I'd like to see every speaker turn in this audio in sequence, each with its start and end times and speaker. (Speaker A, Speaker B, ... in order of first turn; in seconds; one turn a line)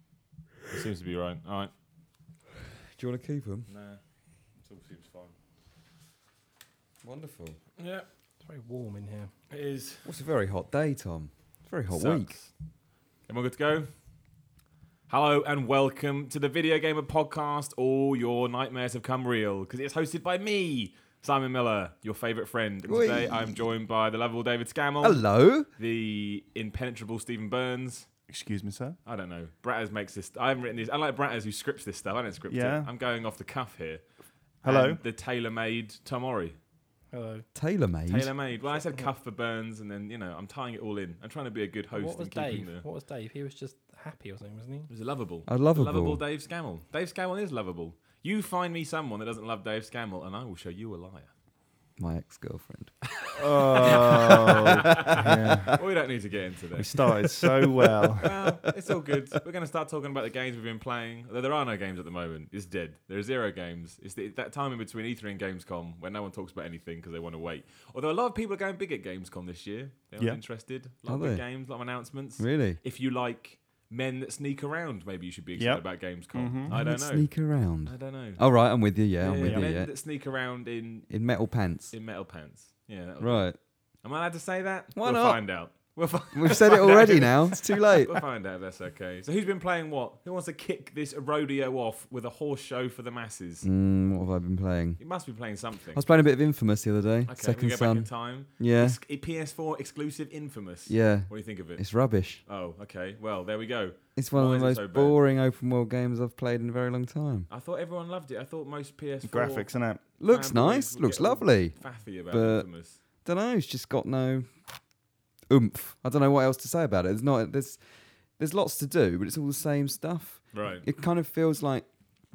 Speaker A: 0.7-1.7
Speaker B: 2.9-3.7
Speaker A: 3.7-4.0
Speaker A: 4.5-5.3
Speaker B: 7.0-7.6
Speaker A: 7.8-8.1
Speaker C: 8.4-9.3
Speaker A: 9.5-10.1
Speaker B: 10.0-12.4
Speaker A: 11.9-12.5
Speaker A: 13.2-13.9
Speaker A: 15.1-28.1
Speaker B: 22.9-23.6
Speaker B: 25.0-25.7
Speaker D: 28.3-29.0
Speaker A: 29.1-34.1
Speaker D: 32.5-32.9
Speaker A: 34.6-36.5
Speaker D: 34.6-35.0
Speaker C: 37.1-37.5
Speaker B: 37.5-38.3
Speaker A: 38.1-42.8
Speaker C: 38.6-39.1
Speaker C: 41.9-44.9
Speaker A: 44.9-51.3
Speaker B: 45.5-46.2
Speaker B: 52.0-53.1
Speaker D: 53.4-55.8
Speaker A: 53.5-56.9
Speaker B: 53.7-55.5
Speaker D: 56.8-58.4
Speaker A: 58.2-81.2
Speaker B: 71.0-71.5
Speaker B: 72.4-72.8
Speaker D: 75.6-76.8
Speaker B: 76.7-79.9
Speaker B: 81.1-81.9
Speaker A: 81.9-93.7
Speaker B: 83.2-83.6
Speaker B: 84.9-85.8
Speaker B: 86.3-88.2
Speaker B: 93.6-95.0
Speaker A: 95.0-96.0
Speaker B: 95.9-99.0
Speaker A: 97.3-101.9
Speaker B: 100.9-102.4
Speaker A: 102.4-105.2
Speaker B: 104.2-107.5
Speaker A: 107.5-113.0
Speaker D: 109.2-110.0
Speaker B: 110.2-114.7
Speaker B: 115.5-121.9
Speaker A: 120.5-120.9